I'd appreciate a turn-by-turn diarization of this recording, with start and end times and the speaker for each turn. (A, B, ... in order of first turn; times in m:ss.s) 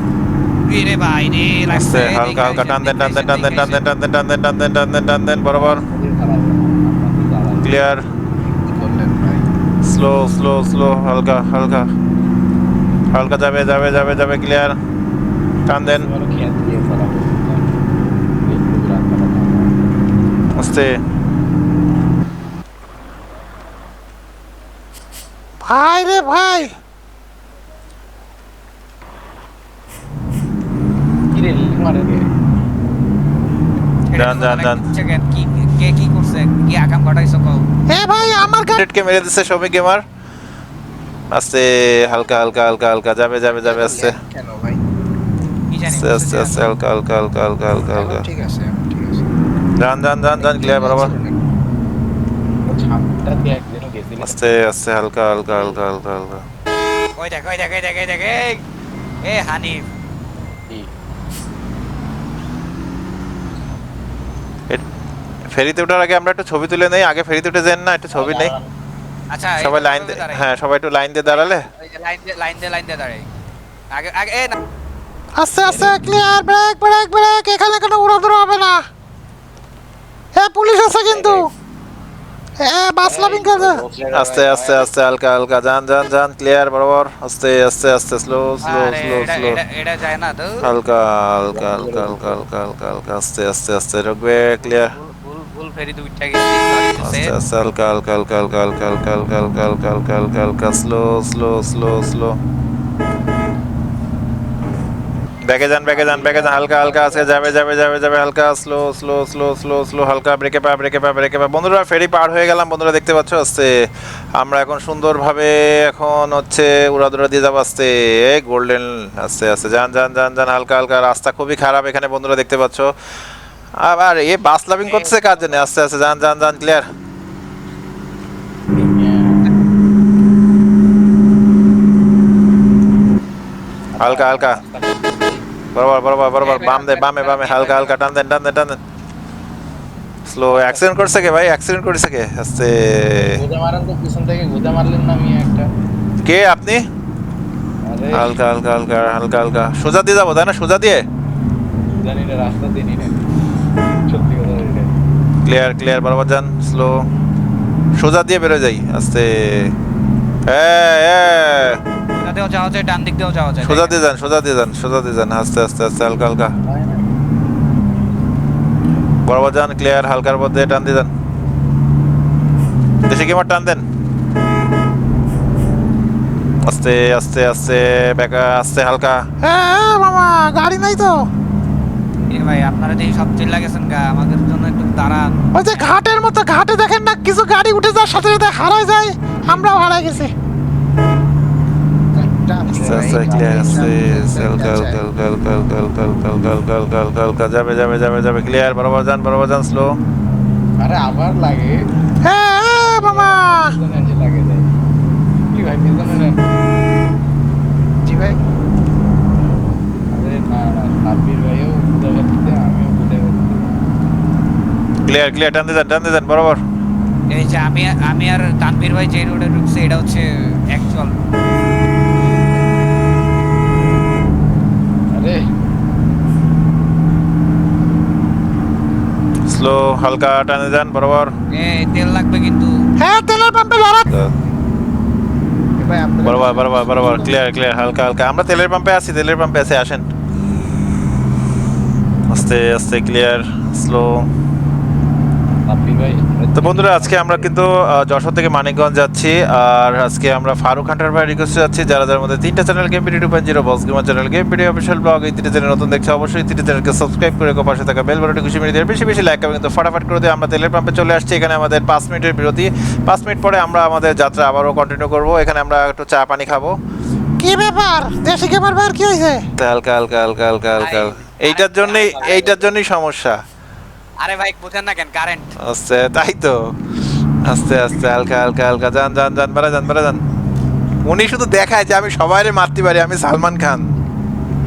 0:00.7-0:03.8 A
0:01.7-0:05.8 B
0:05.4-0:07.9 C
0:07.6-0:08.0 B
0:08.4-0:09.4 D
0:09.8-0:11.9 B
0:13.1-0:14.8 B
0:15.7-0:16.1 B
0:15.8-0:17.7 C
0:18.4-0:19.7 C
0:20.6-0:21.0 B
0:25.6-0:26.7 E
0:26.3-0:26.7 A
0:31.3-0:32.3 C
0:34.1-0:37.6 A
0:34.1-0:34.8 B
0:37.9-0:38.8 E
0:38.7-0:40.0 B
0:41.3-0:44.2 B
0:43.5-0:44.8 D
0:45.7-0:46.6 A
0:45.9-0:48.2 B
0:47.9-0:49.3 D
0:49.8-0:51.1 B
0:50.3-0:51.4 D
0:52.7-0:54.6 C
0:54.2-0:56.4 B
0:55.5-0:55.8 C
0:57.2-0:58.6 A
0:59.2-0:59.8 A
1:05.5-1:08.5 B
1:08.1-1:08.7 C
1:09.3-1:10.4 A
1:09.6-1:11.7 B
1:11.3-1:13.2 A
1:13.9-1:14.6 A
1:15.4-1:18.8 E
1:15.5-1:16.0 C
1:20.3-1:21.5 E
1:21.1-1:21.5 C
1:22.6-1:23.8 E
1:23.0-1:24.9 C
1:24.1-1:29.6 B
1:28.6-1:30.7 A
1:30.6-1:34.9 B
1:31.5-1:32.4 C
1:34.6-1:37.3 A
1:37.0-1:42.4 B
1:45.4-1:53.7 B
1:45.9-1:47.6 C
1:54.4-2:02.9 B
2:03.8-2:06.9 B
2:04.8-2:05.7 A
2:08.7-2:09.5 C
2:13.9-2:15.4 C
2:14.0-2:14.6 B
2:15.7-2:18.8 B
2:16.4-2:18.0 A
2:20.2-2:23.4 B
2:20.5-2:21.3 C
2:23.2-2:25.7 C
2:26.2-2:26.8 B
2:27.9-2:28.3 C
2:28.1-2:31.0 B
2:32.0-2:33.2 C
2:34.1-2:35.0 C
2:35.4-2:37.0 B
2:38.0-2:39.7 B
2:40.5-2:41.8 B
2:42.1-2:44.0 A
2:43.6-2:46.5 B
2:46.6-2:47.0 C
2:49.2-2:51.1 B
2:53.0-2:53.8 B
2:56.6-2:59.2 B
2:59.4-3:01.3 E
3:02.3-3:05.8 A
3:05.5-3:10.3 E
3:09.8-3:10.2 C
3:12.1-3:15.0 D
3:12.7-3:13.9 C
3:12.8-3:19.9 B
3:20.8-3:21.8 C
3:22.2-3:23.7 E
3:22.8-3:24.7 C
3:25.5-3:26.4 C
3:28.0-3:28.4 D
3:30.1-3:33.7 C
3:35.1-3:36.6 B
3:37.3-3:41.2 A
3:45.2-3:45.4 C
3:49.5-3:51.3 B
3:51.5-3:52.8 A
3:53.0-3:54.1 E
3:54.1-3:54.3 B
3:55.8-3:57.4 D
3:56.2-4:00.0 B
4:02.3-4:04.2 B
4:05.7-4:07.5 C
4:06.5-4:26.8 B
4:27.4-4:29.4 E
4:29.6-4:33.4 B
4:30.8-4:32.6 A
4:32.1-4:32.6 C
4:34.2-4:35.5 A
4:35.6-4:36.7 B
4:37.4-4:40.2 B
4:41.0-4:43.9 B